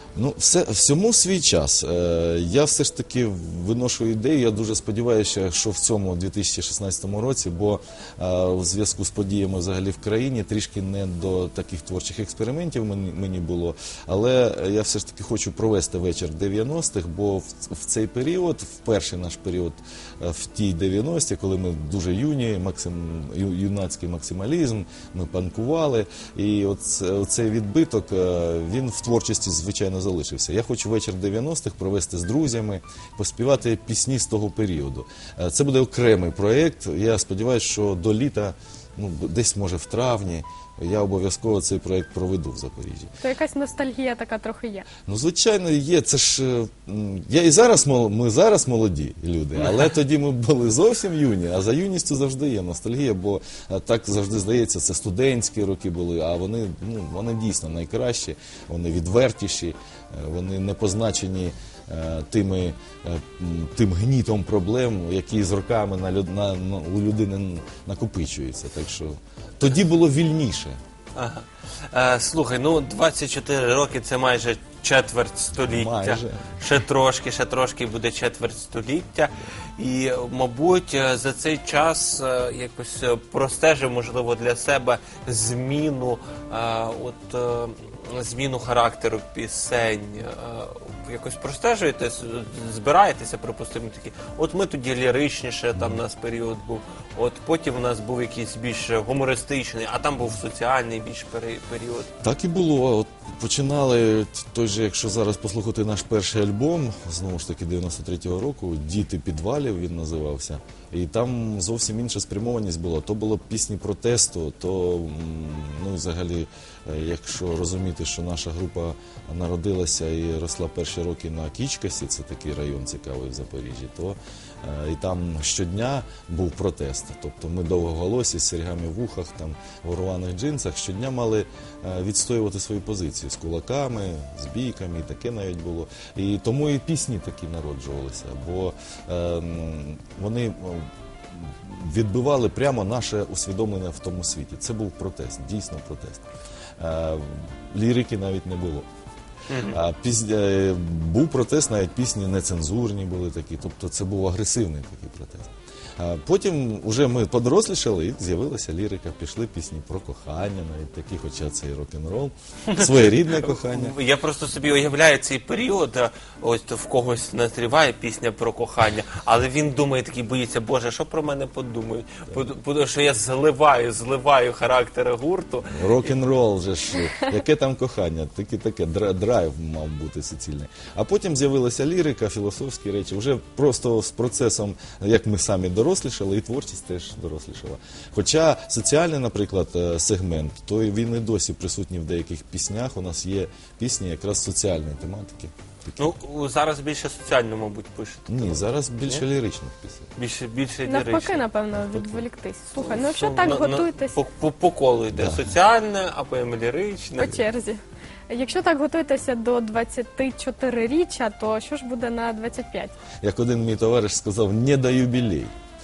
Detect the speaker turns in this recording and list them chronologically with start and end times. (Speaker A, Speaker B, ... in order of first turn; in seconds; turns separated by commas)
Speaker A: 0.1-43.1, Speaker B: 43.2-44.9, Speaker A: 45.0-70.8, Speaker C: 71.2-102.1, Speaker A: 75.5-76.6, Speaker A: 102.2-146.2, Speaker A: 146.8-148.8, Speaker C: 149.5-149.8, Speaker A: 149.7-163.9, Speaker C: 162.7-176.1, Speaker A: 175.7-196.1, Speaker C: 196.0-199.2, Speaker A: 198.3-200.1, Speaker C: 200.2-201.4, Speaker B: 200.8-204.2, Speaker A: 201.7-202.2, Speaker C: 202.8-207.4, Speaker A: 205.1-205.5, Speaker B: 207.2-212.9, Speaker A: 213.2-215.5